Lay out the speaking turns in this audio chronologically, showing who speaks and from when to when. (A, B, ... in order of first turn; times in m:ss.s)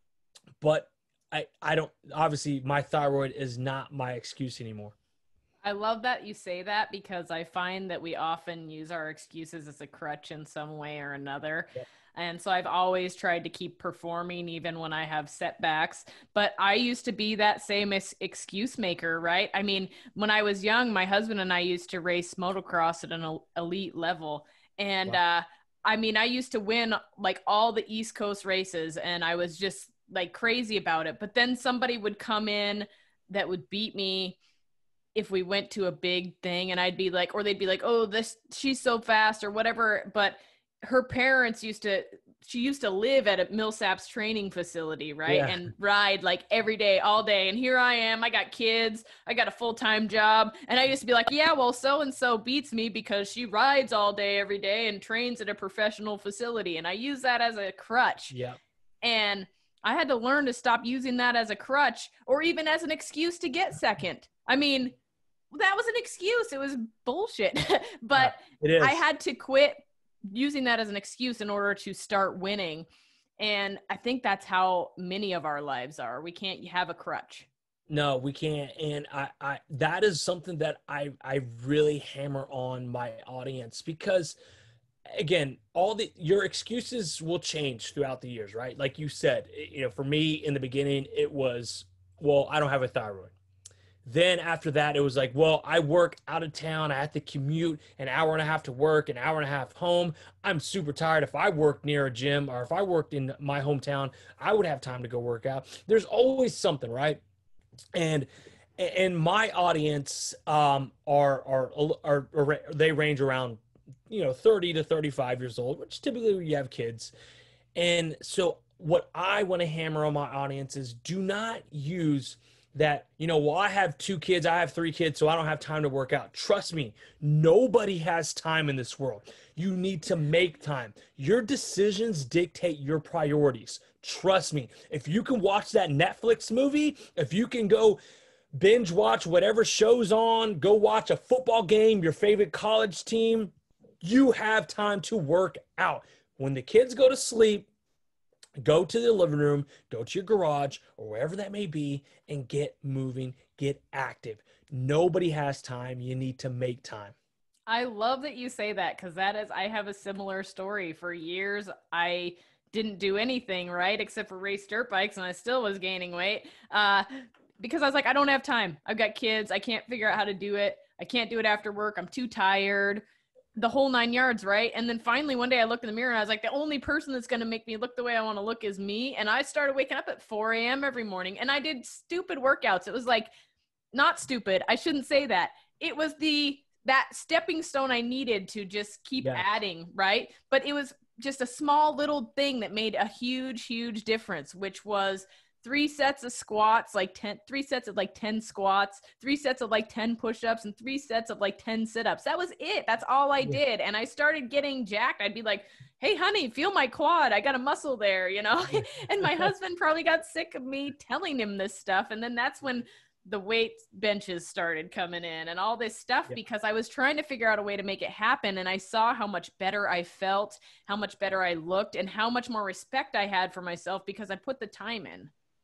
0:00.6-0:04.9 A
0:05.6-0:34.4 B
0:35.1-0:58.3 B
0:45.3-0:45.6 A
0:58.3-0:58.6 A
0:59.0-1:04.9 B
1:05.5-1:09.8 B
1:08.1-1:09.0 A
1:10.3-1:12.9 B
1:13.4-1:17.5 B
1:17.9-1:24.4 A
1:25.1-1:33.3 A
1:34.0-1:47.2 A
1:47.9-1:57.1 A
1:57.7-2:18.0 A
2:18.6-2:27.7 A
2:28.6-2:37.1 A
2:37.7-2:47.0 B
2:47.6-2:53.0 B
2:53.6-3:03.3 B
3:03.9-3:45.3 B
3:28.8-3:29.5 A